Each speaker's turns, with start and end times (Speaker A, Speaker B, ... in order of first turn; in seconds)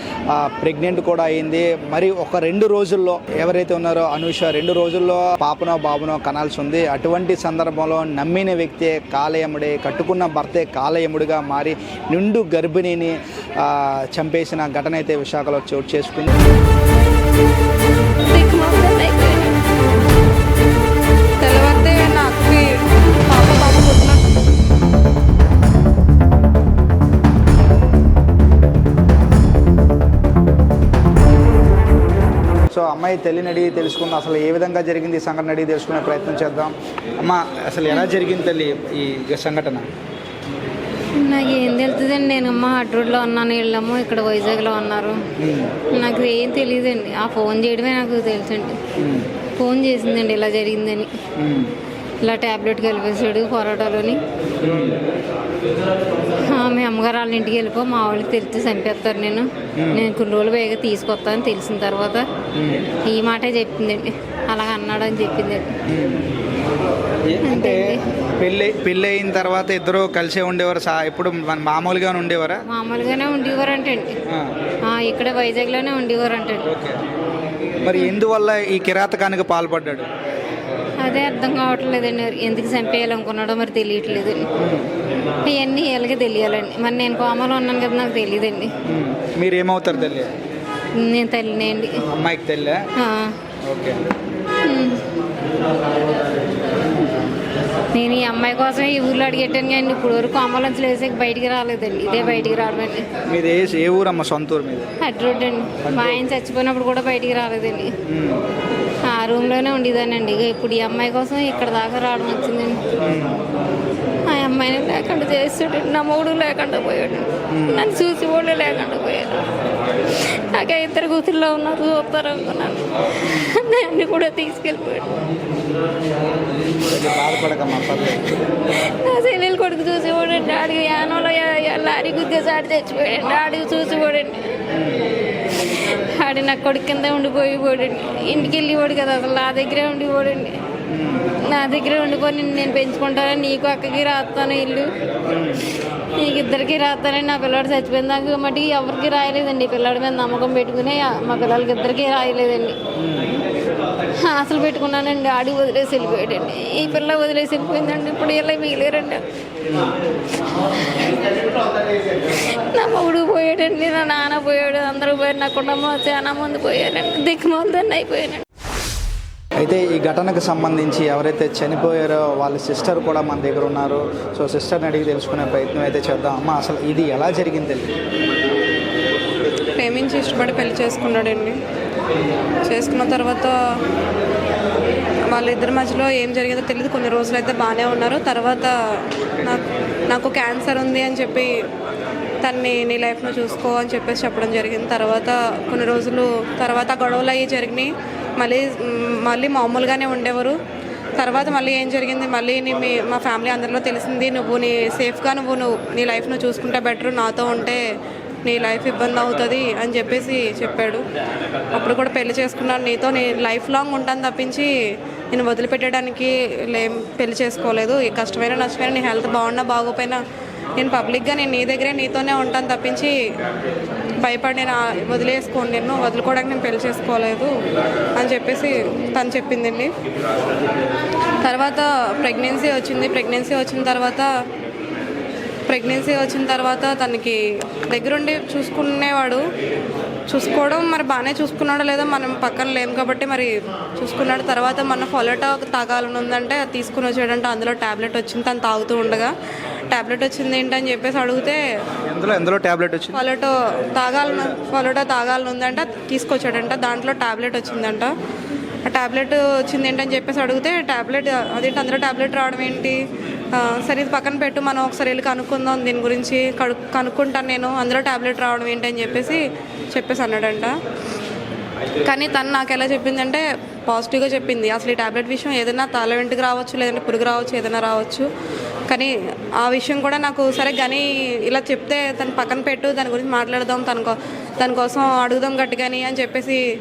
Speaker A: 0.3-16.4, 32.7-39.9, 45.4-45.7, 49.0-49.3, 51.4-51.7, 54.6-55.0, 59.8-60.1, 62.5-62.9, 65.9-66.3, 67.2-72.7, 76.7-77.0, 77.8-80.1, 84.6-84.9, 88.8-90.3, 92.1-92.8, 93.6-94.0, 102.2-102.5, 103.3-104.9, 105.8-106.2, 108.0-108.4, 113.0-113.4, 117.5-117.9, 126.9-128.4, 134.7-135.1, 140.9-141.3, 145.3-145.7, 153.0-153.4, 169.6-177.9, 252.1-253.2
Speaker B: 18.3-19.6, 41.2-45.2, 45.9-48.8, 49.6-51.1, 52.2-54.2, 56.5-62.3, 63.1-65.7, 67.4-68.0, 72.7-74.1, 74.9-76.7, 81.0-84.4, 85.4-88.7, 91.0-92.0, 93.0-93.3, 94.7-95.0, 97.9-103.0, 105.0-107.9, 109.1-112.8, 114.3-119.4, 120.5-125.2, 129.0-134.4, 135.8-140.5, 141.5-144.9, 146.2-152.8, 154.2-159.2, 160.6-161.4, 162.2-168.4
Speaker C: 21.4-22.7, 23.3-24.2, 179.8-181.6, 182.7-183.6, 185.3-191.5, 192.4-200.6, 201.2-207.8, 208.4-211.0, 211.8-214.7, 215.3-220.2, 220.8-223.2, 224.2-227.5, 228.2-229.9, 231.4-234.3, 235.7-239.4, 240.3-249.3, 249.9-251.6, 253.1-258.1, 258.9-263.0, 263.5-270.7, 272.1-278.3, 278.9-286.6